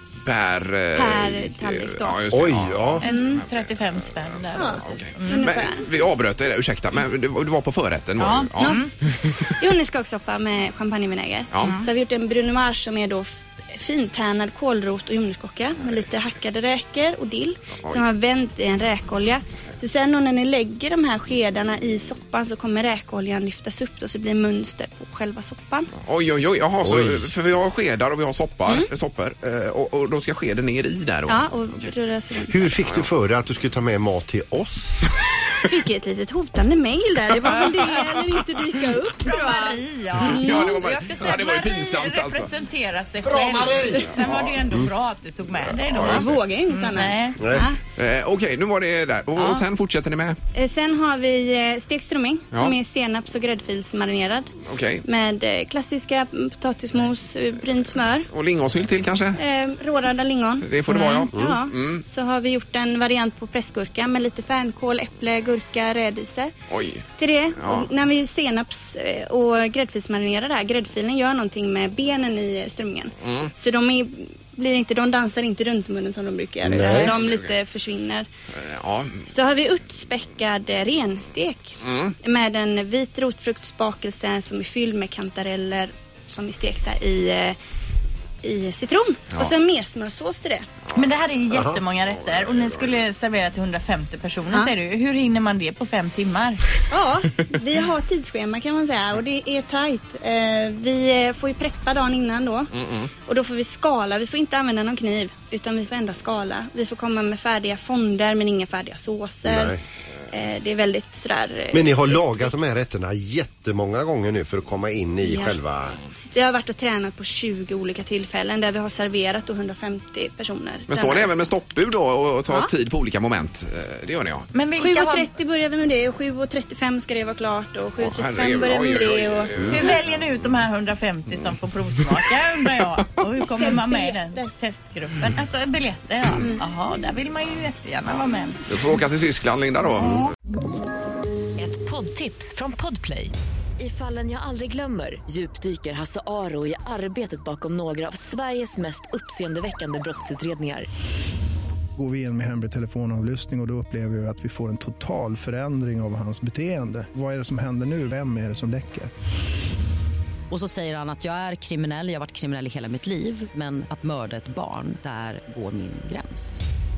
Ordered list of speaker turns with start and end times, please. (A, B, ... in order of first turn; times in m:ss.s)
0:00.2-0:03.6 A
0:00.9-0:02.2 B
0:02.3-0:03.0 C
0:03.0-0:05.5 D
0:03.0-0:03.4 B
0:04.5-0:05.8 B
0:04.8-0:09.4 A
0:08.2-0:08.9 D
0:08.6-0:08.9 B
0:09.4-0:25.9 B
0:17.8-0:18.0 A
0:26.0-0:31.9 A
0:26.8-0:27.2 C
0:31.3-0:32.6 B
0:32.5-0:35.0 C
0:32.8-0:33.1 A
0:35.6-0:40.7 B
0:37.5-0:37.7 D
0:39.2-0:47.4 D
0:40.2-0:42.5 A
0:43.2-0:44.3 C
0:45.9-0:46.3 A
0:46.0-0:47.8 B
0:47.4-0:47.7 C
0:47.9-0:50.4 A
0:50.5-0:54.5 B
0:54.6-0:55.0 A
0:55.0-0:58.3 B
0:58.3-0:59.4 A
0:59.4-1:06.5 B
1:00.6-1:02.0 A
1:06.7-1:07.1 A
1:07.2-1:18.2 B
1:07.6-1:07.9 A
1:13.2-1:13.5 A
1:16.6-1:17.1 C
1:17.0-1:17.5 A
1:18.5-1:19.2 A
1:19.3-1:27.6 B
1:21.8-1:22.1 A
1:28.4-1:30.7 B
1:30.9-1:36.6 D
1:31.5-1:31.8 C
1:36.9-1:42.7 B
1:42.8-1:43.1 A
1:43.2-1:49.7 B
1:49.4-1:49.8 C
1:50.3-1:52.4 B
1:51.7-1:56.0 C
1:55.2-1:55.6 B
1:56.3-2:01.3 B
2:00.9-2:04.5 A
2:04.5-2:05.3 D
2:04.8-2:09.9 B
2:08.0-2:09.8 A
2:09.6-2:18.6 D
2:13.4-2:14.4 B
2:16.4-2:16.6 B
2:18.7-2:20.3 A
2:21.6-2:30.9 E
2:32.0-2:39.1 F
2:40.5-2:46.4 G